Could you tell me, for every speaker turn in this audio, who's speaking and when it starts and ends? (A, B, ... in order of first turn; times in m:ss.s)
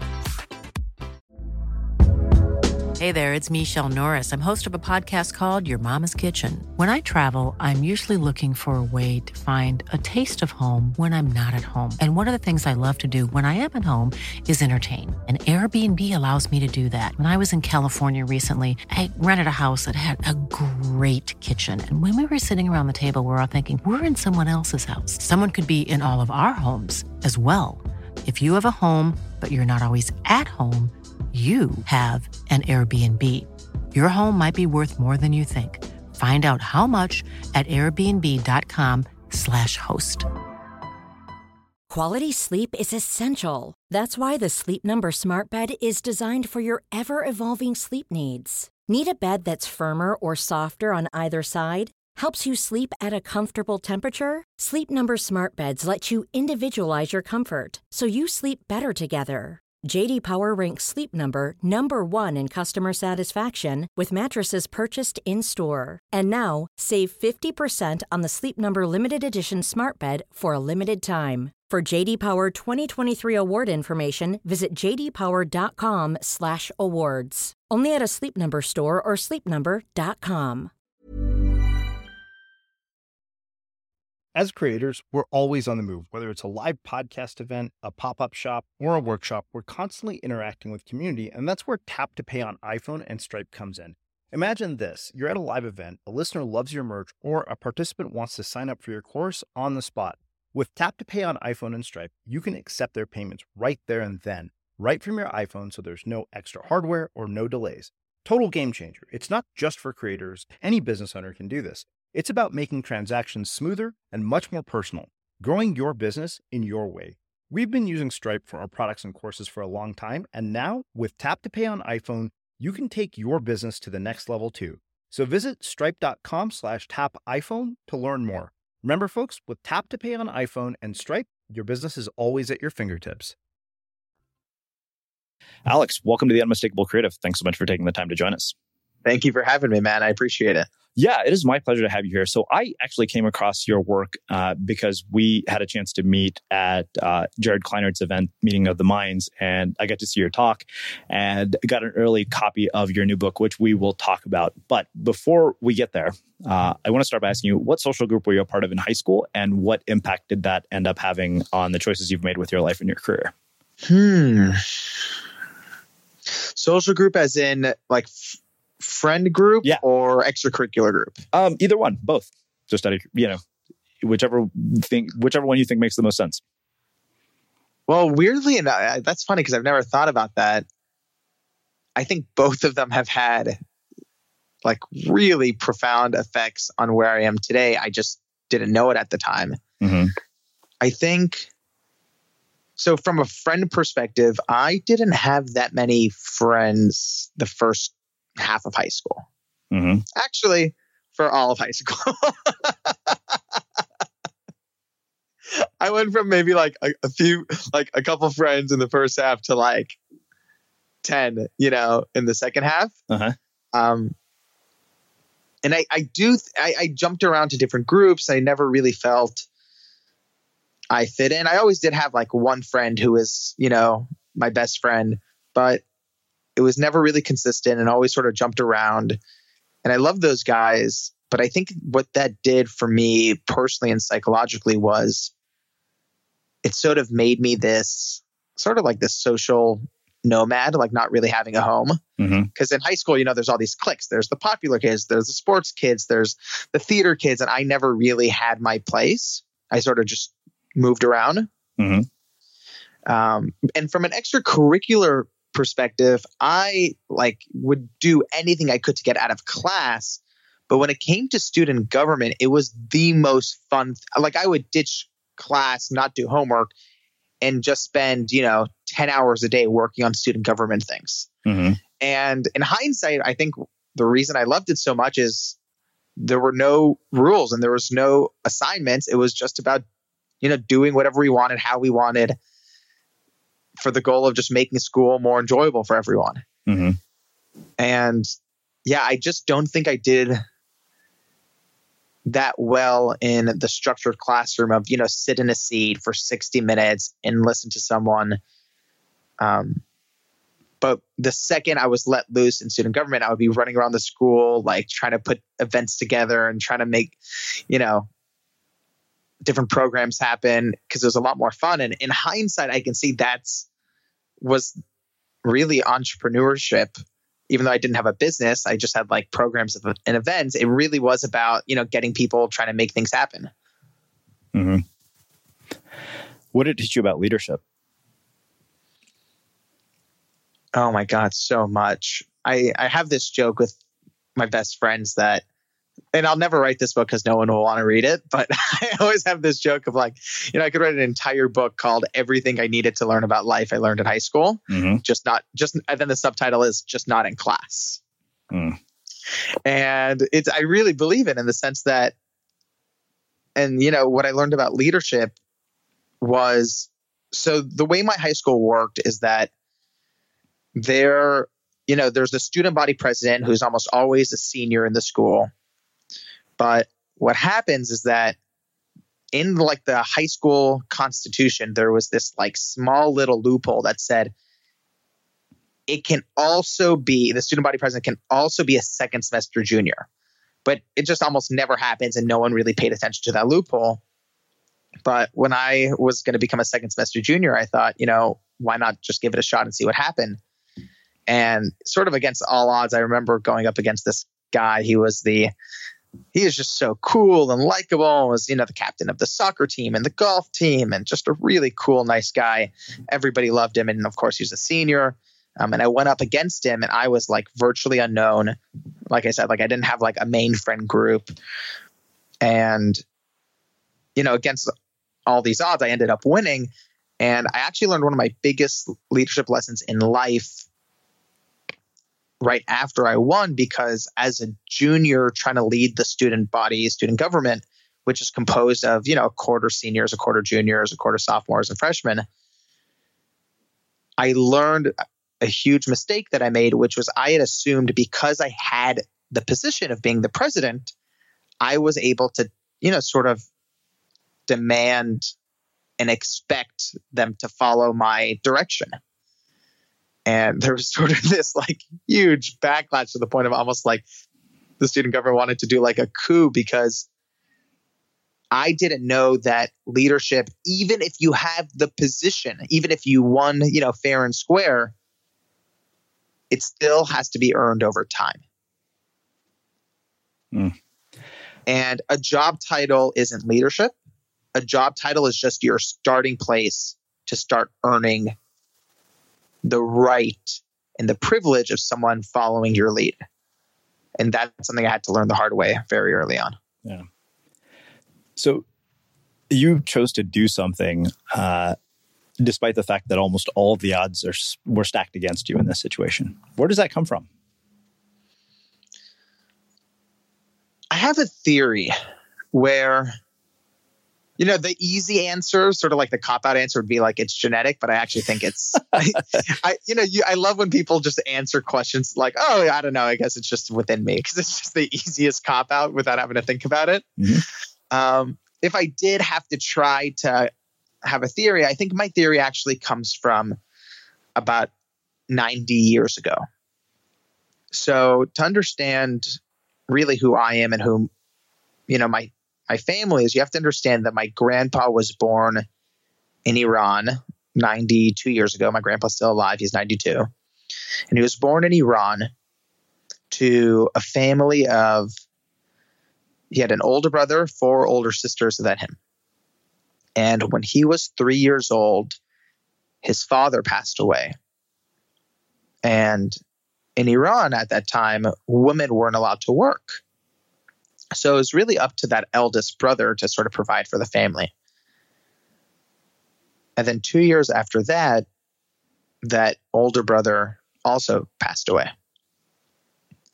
0:03.0-0:40.3 A
0:41.9-1:20.7 B
1:24.4-2:13.4 C
2:15.7-2:18.6 D
2:19.0-2:20.7 E
2:21.0-2:43.3 D
2:43.8-2:44.6 E
2:46.5-2:51.2 E
2:51.3-2:53.4 D
2:54.0-2:56.4 D
2:57.9-3:00.6 E
3:02.0-3:03.6 E
3:04.6-3:09.6 E
3:09.8-3:10.1 D
3:10.8-3:11.5 E
3:12.8-3:19.3 E
3:19.7-3:20.0 D
3:20.2-3:23.4 E
3:25.5-3:30.0 E
3:31.0-3:33.0 E
3:33.1-3:33.4 D
3:33.7-3:34.1 E
3:35.6-3:39.4 E
3:40.9-3:45.8 E
3:46.6-3:49.2 E
3:49.8-3:55.3 E
3:56.6-4:02.0 E
4:02.2-4:02.5 D
4:02.6-4:11.5 E
4:11.8-4:12.1 D
4:13.1-4:26.7 E
4:27.4-4:31.3 E
4:31.5-4:31.8 D
4:32.0-4:35.6 E
4:36.2-4:39.8 E
4:40.4-4:42.4 E
4:43.8-4:46.4 E
4:46.7-4:47.0 D
4:47.8-4:48.3 E
4:48.9-4:50.4 E
4:52.3-4:58.4 E
4:59.4-4:59.8 E
5:00.8-5:07.2 E
5:07.7-5:08.1 E
5:09.4-5:13.7 E
5:14.4-5:14.8 E
5:15.4-5:17.0 E
5:17.5-5:23.5 E
5:24.5-5:24.8 D
5:26.5-5:27.6 D
5:30.7-5:33.8 E
5:34.4-5:35.4 E
5:36.1-5:48.0 E
5:44.7-5:45.0 D
5:48.5-5:48.8 D
5:49.6-5:52.1 E
5:53.6-5:55.3 E
5:56.2-5:59.5 E
6:00.8-6:05.5 E
6:06.6-6:08.4 E
6:09.3-6:14.3 E
6:15.9-6:20.1 E
6:20.6-6:24.0 E
6:25.0-6:30.4 E
6:31.3-6:35.5 E
6:36.3-6:48.6 E
6:49.1-6:51.3 E
6:52.4-6:53.0 E
6:54.2-6:54.7 E
6:55.3-7:00.7 E
7:02.4-7:12.2 E
7:14.2-7:20.9 E
7:21.6-7:23.4 E
7:24.5-7:25.3 E
7:26.0-7:29.0 E
7:30.3-7:34.0 E
7:34.8-7:37.1 E
7:38.5-7:44.9 E
7:46.5-7:48.4 E
7:51.7-7:53.9 E
7:54.6-7:58.3 E
7:59.6-8:03.2 E
8:04.2-8:06.6 E
8:08.4-8:08.6 D
8:09.5-8:11.8 D
8:12.4-8:17.3 D
8:20.9-8:22.0 E
8:22.5-8:23.1 E
8:24.4-8:37.1 E
8:37.2-8:37.4 D
8:37.9-8:40.5 E
8:41.0-8:43.6 E
8:44.4-8:44.7 E
8:45.3-8:46.4 E
8:47.7-8:49.4 E
8:49.9-8:51.1 E
8:51.9-8:55.6 E
8:56.5-9:00.3 E
9:01.1-9:02.3 E
9:03.3-9:05.1 E
9:06.5-9:09.0 E
9:10.2-9:12.2 E
9:13.0-9:14.4 E
9:15.8-9:16.4 E
9:17.0-9:20.0 E
9:21.1-9:24.5 E
9:26.8-9:28.3 E
9:29.2-9:31.9 E